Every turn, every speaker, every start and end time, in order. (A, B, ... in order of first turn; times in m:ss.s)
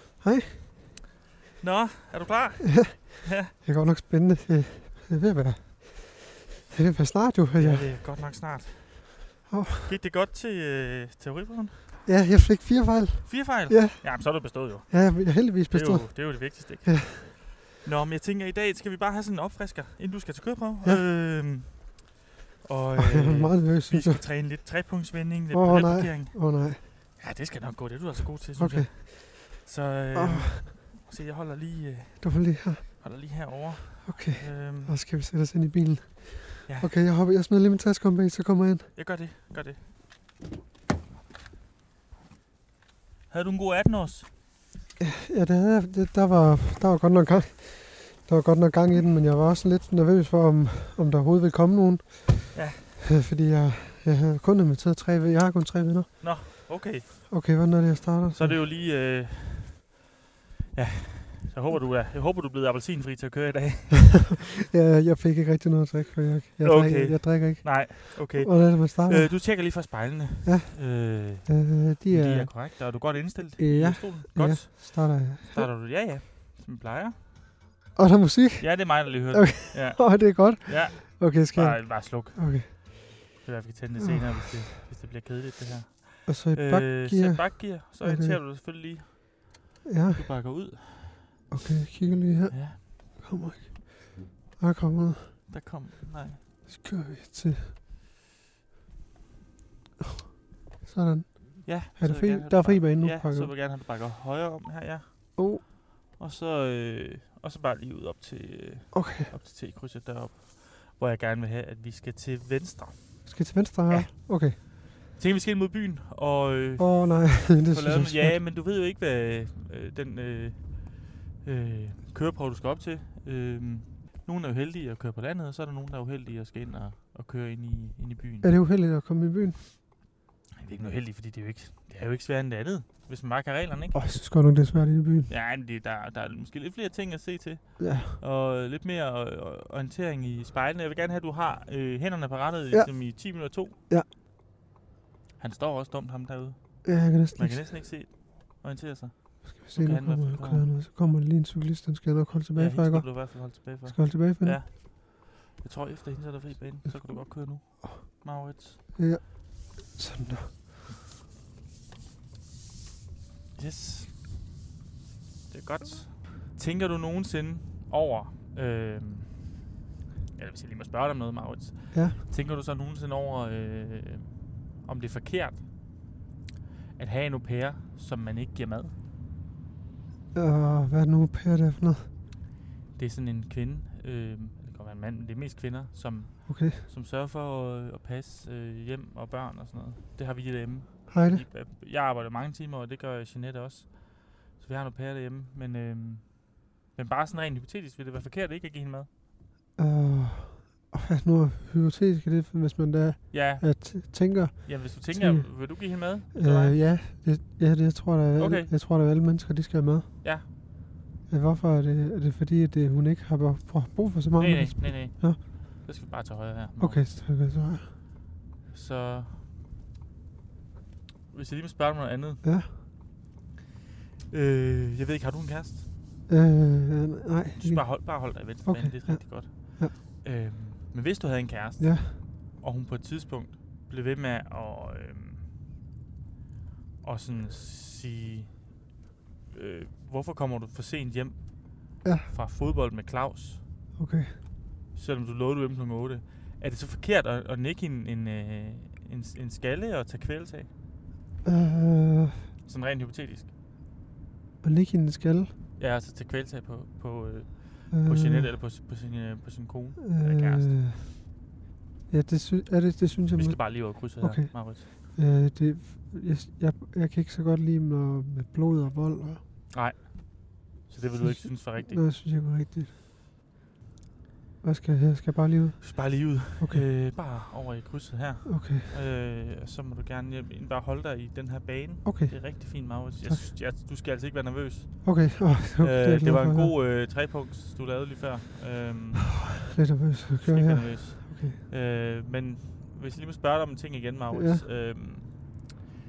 0:00.2-0:00.7 A
0:01.6-0:03.5 B
0:02.6-0:08.2 A
0:07.6-0:12.0 B
0:09.5-0:09.9 A
0:12.0-0:17.2 A
0:13.2-0:22.1 B
0:22.6-0:34.9 B
0:23.0-0:24.7 A
0:25.5-0:26.8 A
0:28.6-0:28.9 A
0:30.1-0:30.7 A
0:32.2-0:33.0 A
0:34.0-0:38.9 A
0:36.7-0:36.9 B
0:38.9-0:39.9 B
0:43.3-0:44.3 B
0:45.0-0:58.6 A
0:52.5-0:53.0 B
0:56.2-0:57.3 B
0:58.3-1:00.0 B
1:00.7-1:04.5 B
1:04.7-1:09.9 A
1:06.6-1:17.2 B
1:10.4-1:13.0 A
1:13.6-1:15.7 A
1:18.0-1:22.7 A
1:18.6-1:29.6 B
1:24.0-1:24.6 A
1:26.2-1:28.4 A
1:29.8-1:30.7 A
1:30.1-1:31.3 B
1:31.5-1:35.4 A
1:32.5-1:32.8 B
1:35.5-1:36.4 B
1:36.7-1:37.7 A
1:40.8-1:43.5 A
1:41.6-2:08.5 B
1:45.4-1:45.6 A
1:48.9-1:49.3 A
1:53.2-1:54.6 A
1:56.8-1:58.4 A
2:08.4-2:09.6 A
2:10.6-2:14.0 B
2:13.9-2:15.3 A
2:15.3-2:23.8 B
2:17.8-2:18.2 A
2:22.7-2:24.1 A
2:25.4-2:30.6 B
2:26.8-2:28.0 A
2:29.5-2:34.6 A
2:32.5-2:38.8 B
2:36.9-2:38.0 A
2:38.9-2:40.7 A
2:43.6-2:44.2 B
2:45.5-2:49.6 B
2:50.4-2:55.7 B
2:51.9-2:52.2 A
2:57.0-2:58.9 B
3:00.3-3:02.1 A
3:02.9-3:19.1 B
3:06.4-3:06.9 A
3:11.1-3:11.4 A
3:19.8-3:30.1 A
3:23.3-3:26.8 B
3:28.4-3:28.7 B
3:30.2-3:30.5 B
3:31.3-3:35.4 A
3:34.4-3:37.0 B
3:36.8-3:37.9 A
3:38.7-3:39.4 B
3:41.3-3:42.4 B
3:42.4-3:42.7 A
3:44.3-3:45.9 B
3:46.3-3:50.0 A
3:47.6-3:55.4 B
3:51.8-3:52.2 A
3:57.0-3:58.8 B
3:59.5-4:03.6 B
4:02.0-4:02.3 A
4:04.0-4:04.4 A
4:04.9-4:10.7 B
4:11.4-4:12.5 A
4:12.6-4:13.5 B
4:14.6-4:15.5 A
4:15.8-4:20.8 B
4:17.9-4:18.6 A
4:20.0-4:21.2 A
4:22.1-4:29.4 A
4:23.3-4:24.9 B
4:29.7-4:32.0 B
4:31.2-4:32.9 A
4:34.6-4:36.9 A
4:35.8-4:49.4 B
4:38.4-4:39.0 A
4:42.0-4:43.5 A
4:45.0-4:46.7 A
4:49.7-4:51.6 A
4:50.4-4:55.6 B
4:54.3-4:54.7 A